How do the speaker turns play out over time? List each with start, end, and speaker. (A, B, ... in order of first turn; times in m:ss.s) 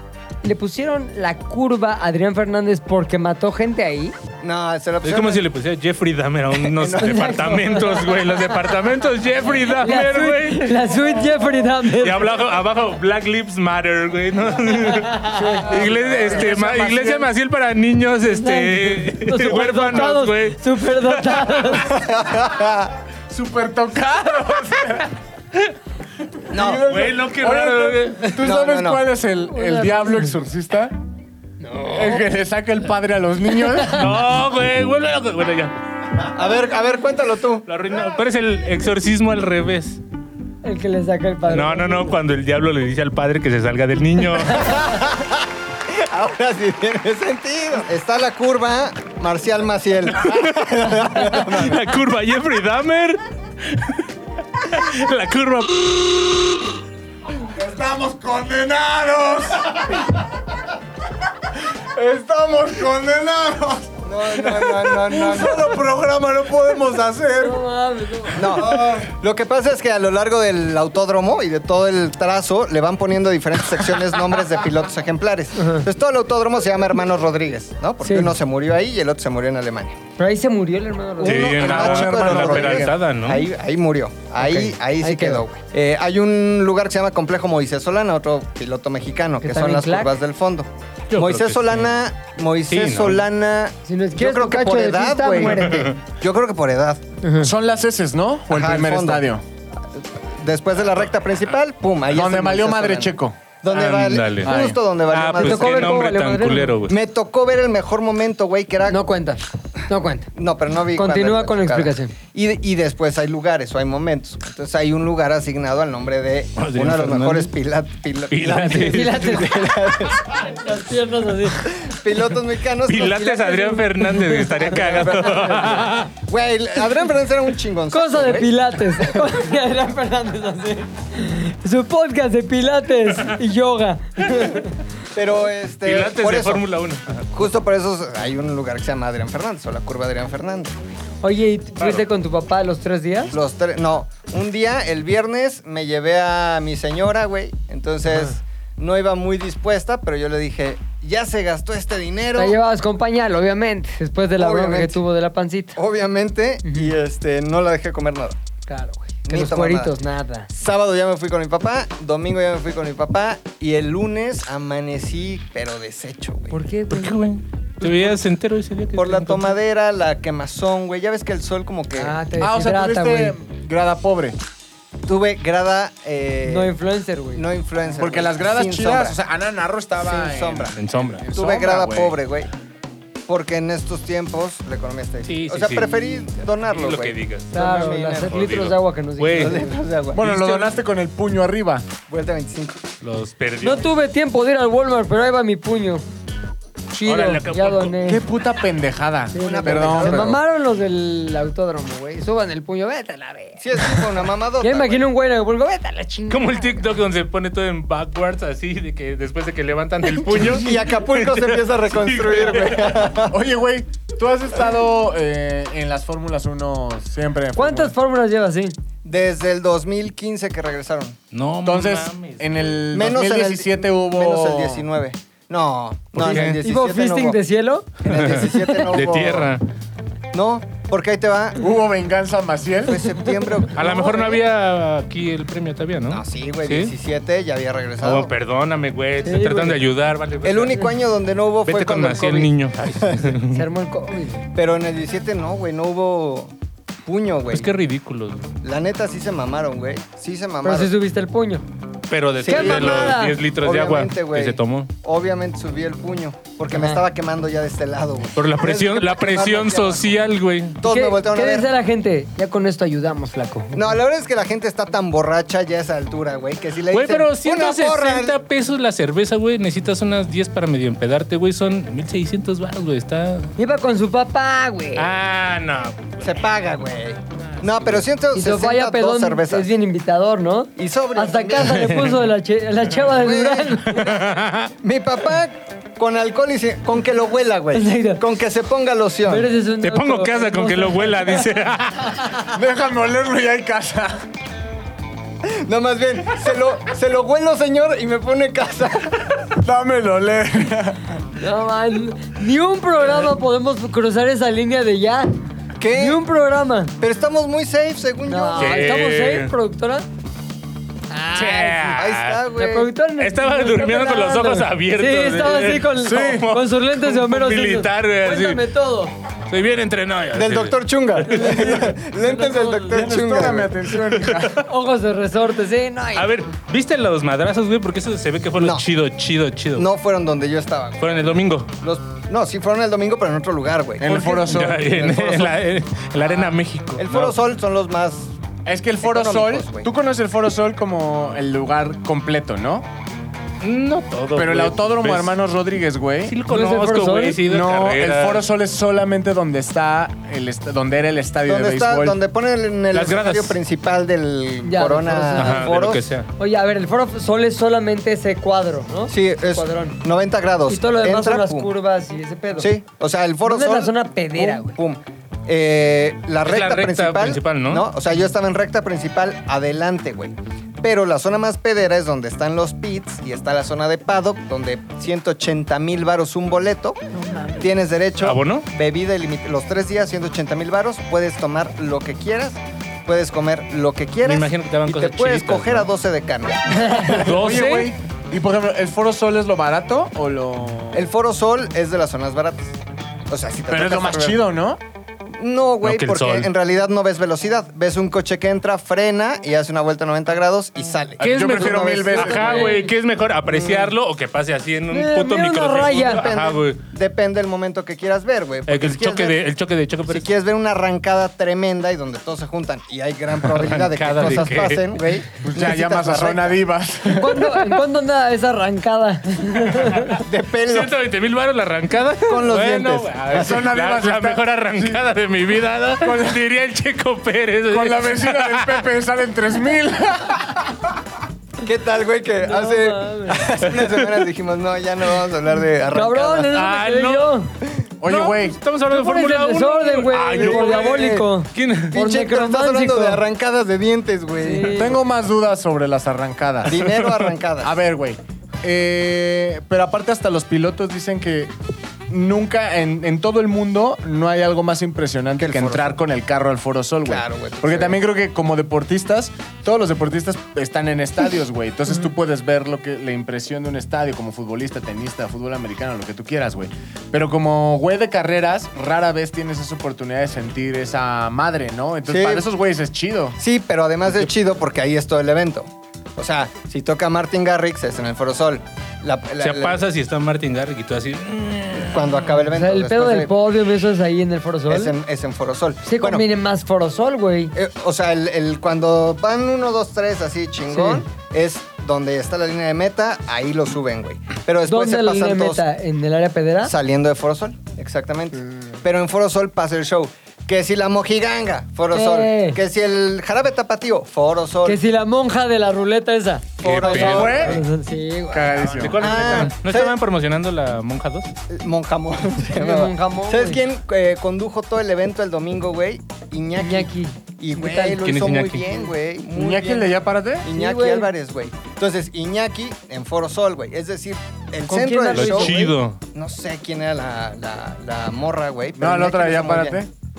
0:00.4-0:04.2 A
0:04.4-0:05.4 B
0:05.0-0:10.9 C
0:06.6-0:07.6 B
0:07.0-0:08.5 A
0:09.7-0:12.3 A
0:11.9-0:21.7 C
0:15.0-0:15.8 A
0:15.5-0:17.3 D
0:18.3-0:22.0 A
0:21.8-0:23.0 B
0:23.3-0:25.1 D
0:26.5-0:26.9 B
0:26.5-0:31.0 D
0:26.9-0:28.4 C
0:28.4-0:29.1 B
0:29.5-0:30.3 A
0:31.6-0:32.2 A
0:31.9-0:34.1 D
0:33.9-0:35.8 C
0:36.3-0:37.6 B
0:37.7-0:40.0 C
0:40.6-0:42.2 A
0:41.5-0:44.8 C
0:44.5-0:51.9 B
0:50.2-0:56.7 C
0:57.5-1:00.1 D
1:01.6-1:07.6 D
1:04.0-1:05.8 B
1:07.4-1:08.5 A
1:08.4-1:20.0 B
1:08.4-1:08.9 D
1:15.6-1:15.8 A
1:18.0-1:18.4 A
1:20.2-1:21.6 A
1:21.2-1:22.9 D
1:21.2-1:23.5 C
1:21.2-1:37.0 B
1:24.4-1:25.4 A
1:29.4-1:30.2 A
1:31.1-1:31.9 C
1:32.7-1:33.2 C
1:33.9-1:35.9 A
1:35.5-1:36.0 C
1:37.2-1:37.5 A
1:37.4-1:39.4 D
1:38.5-1:39.3 B
1:39.9-1:46.1 B
1:42.1-1:43.4 D
1:43.7-1:44.6 C
1:44.4-1:44.8 D
1:45.1-1:47.0 C
1:45.4-1:46.8 A
1:46.9-1:49.0 B
1:48.9-1:50.3 A
1:50.4-2:00.5 B
1:51.0-1:52.1 A
1:56.6-1:57.5 C
1:58.3-1:59.5 C
1:58.7-1:59.6 A
2:00.4-2:01.7 A
2:01.6-2:03.3 B
2:02.9-2:06.1 C
2:03.0-2:06.0 A
2:04.7-2:09.3 B
2:07.9-2:14.7 A
2:15.1-2:16.6 B
2:15.8-2:17.3 C
2:17.3-2:20.8 B
2:21.2-2:23.3 A
2:23.3-2:32.6 B
2:32.4-2:35.8 A
2:34.4-2:35.0 B
2:35.8-2:38.4 B
2:36.6-2:36.9 A
2:38.7-2:40.5 A
2:39.3-2:40.0 B
2:40.5-2:46.6 B
2:46.5-2:47.2 A
2:46.9-2:49.6 C
2:47.8-2:48.2 A
2:49.0-2:52.2 B
2:52.0-2:53.4 A
2:52.4-2:54.4 D
2:55.1-2:56.7 B
2:56.4-2:57.5 A
2:57.4-2:59.2 B
2:58.0-3:02.2 D
3:00.0-3:00.8 B
3:00.8-3:01.2 C
3:01.3-3:02.5 B
3:03.3-3:08.4 B
3:05.3-3:07.5 C
3:07.5-3:09.8 A
3:08.2-3:09.6 C
3:09.4-3:10.8 B
3:10.1-3:11.9 D
3:12.1-3:12.8 B
3:13.0-3:13.9 C
3:13.6-3:16.0 A
3:16.9-3:18.2 A
3:17.0-3:18.0 C
3:18.0-3:20.4 D
3:19.3-3:24.0 A
3:19.4-3:20.4 B
3:23.6-3:25.0 B
3:24.6-3:26.8 A
3:26.3-3:33.1 C
3:30.3-3:33.4 B
3:33.3-3:37.9 D
3:37.6-3:38.8 A
3:39.0-3:41.2 B
3:41.3-3:42.7 C
3:41.6-3:44.8 D
3:42.9-3:47.4 B
3:46.2-3:46.6 C
3:46.2-3:48.4 A
3:48.0-3:49.5 B
3:48.1-3:49.6 C
3:50.3-3:51.6 B
3:51.6-3:53.0 D
3:52.8-3:54.4 B
3:53.7-3:56.9 C
3:56.1-3:58.3 B
3:58.0-4:00.9 C
3:59.2-3:59.8 A
4:00.4-4:03.4 B
4:01.7-4:03.6 C
4:03.5-4:04.4 A
4:04.6-4:06.5 B
4:07.0-4:07.7 B
4:07.5-4:08.5 C
4:08.6-4:10.9 B
4:10.6-4:11.6 A
4:12.1-4:14.9 C
4:12.4-4:20.1 B
4:12.5-4:13.4 A
4:16.7-4:17.0 A
4:18.4-4:20.8 C
4:20.8-4:21.7 B
4:20.8-4:23.9 A
4:23.7-4:28.4 B
4:26.9-4:33.5 C
4:33.6-4:35.1 A
4:35.0-4:36.3 C
4:36.2-4:39.7 B
4:38.3-4:44.1 A
4:40.8-4:42.0 B
4:41.7-4:42.2 C
4:43.1-4:44.0 B
4:43.9-4:44.7 C
4:44.8-4:49.5 B
4:47.7-4:48.2 A
4:49.3-4:51.5 A
4:49.8-4:52.2 C
4:52.5-4:54.2 D
4:55.4-4:59.4 B
4:59.6-5:01.0 D
5:01.4-5:05.4 A
5:05.8-5:06.2 B
5:05.9-5:06.9 A
5:07.0-5:09.0 B
5:08.3-5:10.1 A
5:08.6-5:09.5 C
5:11.1-5:12.0 A
5:11.3-5:12.4 C
5:11.9-5:12.9 B
5:12.6-5:19.1 A
5:13.2-5:18.6 C
5:16.0-5:16.5 D
5:19.5-5:21.7 C
5:20.3-5:23.9 B
5:21.3-5:23.1 A
5:22.8-5:24.6 D
5:24.0-5:24.5 C
5:24.6-5:26.3 A
5:26.2-5:29.9 C
5:28.6-5:28.8 B
5:29.8-5:31.3 B
5:31.0-5:31.7 C
5:31.8-5:35.6 B
5:34.0-5:35.0 D
5:34.1-5:37.4 C
5:37.0-5:38.3 B
5:38.7-5:42.9 D
5:39.0-5:39.9 B
5:43.6-5:45.4 C
5:44.4-5:46.4 D
5:46.2-5:48.5 C
5:46.5-5:47.4 A
5:47.4-5:52.2 D
5:51.4-5:56.1 B
5:52.9-5:53.6 C
5:54.6-5:55.7 A
5:55.4-5:56.3 C
5:56.4-6:00.0 A
5:59.1-6:01.7 B
6:00.7-6:02.7 A
6:02.6-6:17.0 B
6:03.4-6:04.8 A
6:06.4-6:07.9 C
6:17.6-6:27.4 B
6:18.2-6:18.7 C
6:24.2-6:25.9 C
6:26.8-6:27.1 A
6:27.1-6:27.9 C
6:27.3-6:31.1 D
6:30.9-6:32.8 B
6:33.3-6:34.5 B
6:33.7-6:34.8 D
6:35.4-6:42.6 B
6:35.8-6:36.5 C
6:41.2-6:42.7 D
6:41.2-6:46.8 C
6:42.2-6:42.9 A
6:43.5-6:43.9 B
6:44.9-6:46.2 A
6:45.8-6:49.4 B
6:48.7-6:50.3 C
6:50.1-6:56.6 B
6:53.5-6:54.9 C
6:55.4-6:57.5 D
6:57.1-7:00.2 A
7:00.2-7:00.9 B
7:00.7-7:08.9 C
7:02.2-7:03.7 B
7:03.3-7:05.0 D
7:06.0-7:06.4 D
7:07.7-7:10.7 D
7:11.6-7:16.6 B
7:12.4-7:13.4 A
7:15.9-7:17.5 A
7:16.5-7:17.4 C
7:18.0-7:18.6 D
7:18.0-7:22.0 C
7:18.9-7:23.2 A
7:20.3-7:21.3 B
7:21.9-7:24.8 B
7:24.4-7:25.0 A
7:24.7-7:27.0 D
7:26.6-7:27.8 B
7:27.6-7:31.5 D
7:32.1-7:53.4 D
7:35.4-7:36.0 B
7:37.0-7:38.0 B
7:52.1-7:52.5 B
7:53.4-7:59.8 B
7:59.4-8:02.3 C
8:01.8-8:03.3 B
8:02.5-8:04.9 A
8:04.7-8:06.2 B
8:05.8-8:07.5 A
8:07.6-8:15.6 B
8:10.7-8:11.0 A
8:14.7-8:16.7 A
8:16.6-8:24.8 B
8:21.9-8:22.6 A
8:24.6-8:28.8 A
8:26.6-8:27.6 B
8:26.6-8:27.5 C
8:26.9-8:27.6 D
8:28.3-8:29.5 D
8:28.6-8:31.3 C
8:29.0-8:30.0 B
8:31.5-8:49.8 B
8:32.5-8:33.6 A
8:36.6-8:38.0 A
8:38.0-8:38.6 C
8:39.3-8:40.5 D
8:40.5-8:41.1 A
8:44.7-8:45.7 A
8:45.1-8:46.0 C
8:48.8-8:49.9 D